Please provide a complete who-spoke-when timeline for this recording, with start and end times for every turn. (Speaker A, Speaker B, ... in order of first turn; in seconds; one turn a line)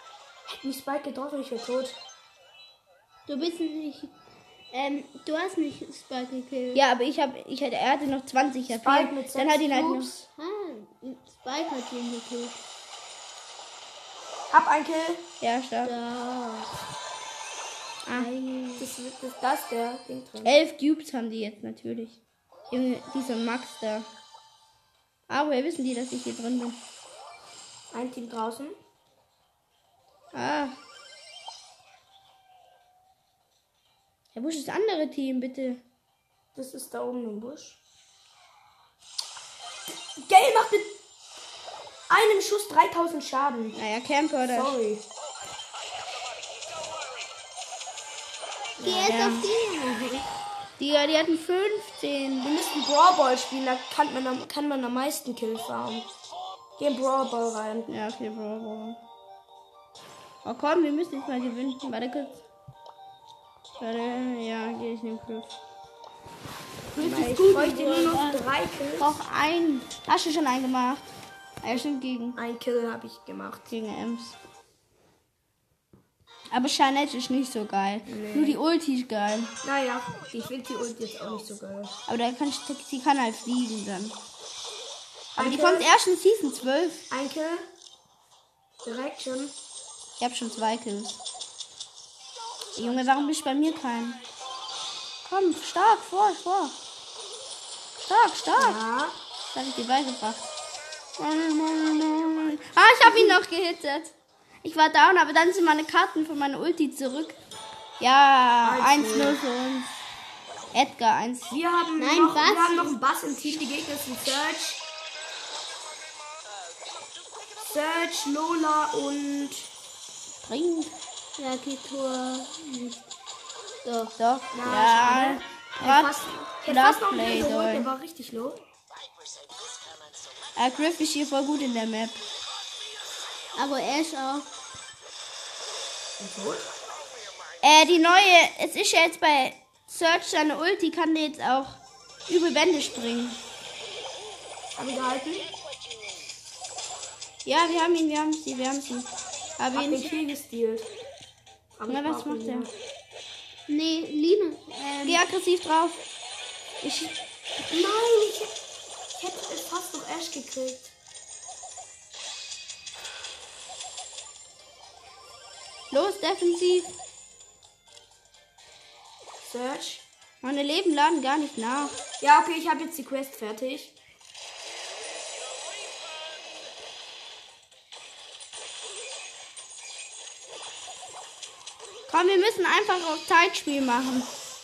Speaker A: 0.5-2.0
Speaker B: 3.3-4.1
Speaker B: 4.7-6.8
Speaker C: 6.7-10.3
Speaker A: 8.7-10.1
Speaker B: 10.4-12.6
Speaker A: 14.5-15.3
Speaker C: 15.4-16.0
Speaker B: 15.8-16.7
Speaker C: 18.0-18.3
Speaker B: 18.1-18.9
Speaker A: 18.8-20.5
Speaker C: 20.4-22.2
Speaker C: 22.7-24.1
Speaker C: 25.3-26.8
Speaker A: 27.9-28.8
Speaker C: 30.3-30.8
Speaker C: 34.4-35.8
Speaker A: 36.5-37.8
Speaker A: 40.2-41.0
Speaker A: 42.1-43.8
Speaker C: 43.7-44.8
Speaker A: 44.5-45.1
Speaker B: 48.8-50.2
Speaker C: 48.8-49.5
Speaker C: 50.8-52.5
Speaker A: 52.4-56.1
Speaker A: 56.8-57.9
Speaker C: 57.9-59.0
Speaker C: 60.4-62.4
Speaker C: 63.8-65.5
Speaker A: 67.0-69.2
Speaker C: 67.0-68.4
Speaker B: 67.5-68.3
Speaker C: 69.0-71.1
Speaker C: 71.6-72.4
Speaker A: 72.3-73.7
Speaker C: 73.7-74.4
Speaker C: 76.5-79.5
Speaker A: 78.1-78.6
Speaker A: 79.6-81.9
Speaker C: 82.1-84.2
Speaker A: 85.4-85.9
Speaker C: 85.4-87.0
Speaker A: 87.1-87.7
Speaker A: 88.8-89.5
Speaker C: 90.2-91.2
Speaker C: 92.8-94.2
Speaker C: 95.2-96.8
Speaker C: 98.0-98.8
Speaker A: 98.6-99.2
Speaker C: 99.5-100.5
Speaker C: 101.2-107.4
Speaker B: 103.0-103.4
Speaker C: 108.0-109.9
Speaker A: 108.6-109.4
Speaker C: 110.7-111.5
Speaker A: 111.5-114.8
Speaker B: 112.0-113.6
Speaker A: 117.7-119.7
Speaker C: 120.5-120.9
Speaker B: 121.4-123.0
Speaker B: 123.8-124.2
Speaker C: 124.2-127.9
Speaker A: 124.5-128.6
Speaker C: 130.6-132.2
Speaker B: 133.5-134.5
Speaker A: 136.2-136.7
Speaker C: 137.6-143.4
Speaker A: 144.8-145.5
Speaker C: 147.5-150.1
Speaker A: 149.8-150.9
Speaker A: 151.8-152.7
Speaker C: 151.9-152.7
Speaker B: 153.7-155.3
Speaker C: 155.0-156.0
Speaker C: 156.8-157.2
Speaker A: 157.7-158.6
Speaker A: 159.2-160.9
Speaker C: 165.9-166.9
Speaker A: 169.4-170.1
Speaker C: 170.4-172.0
Speaker A: 172.2-173.9
Speaker C: 182.1-184.3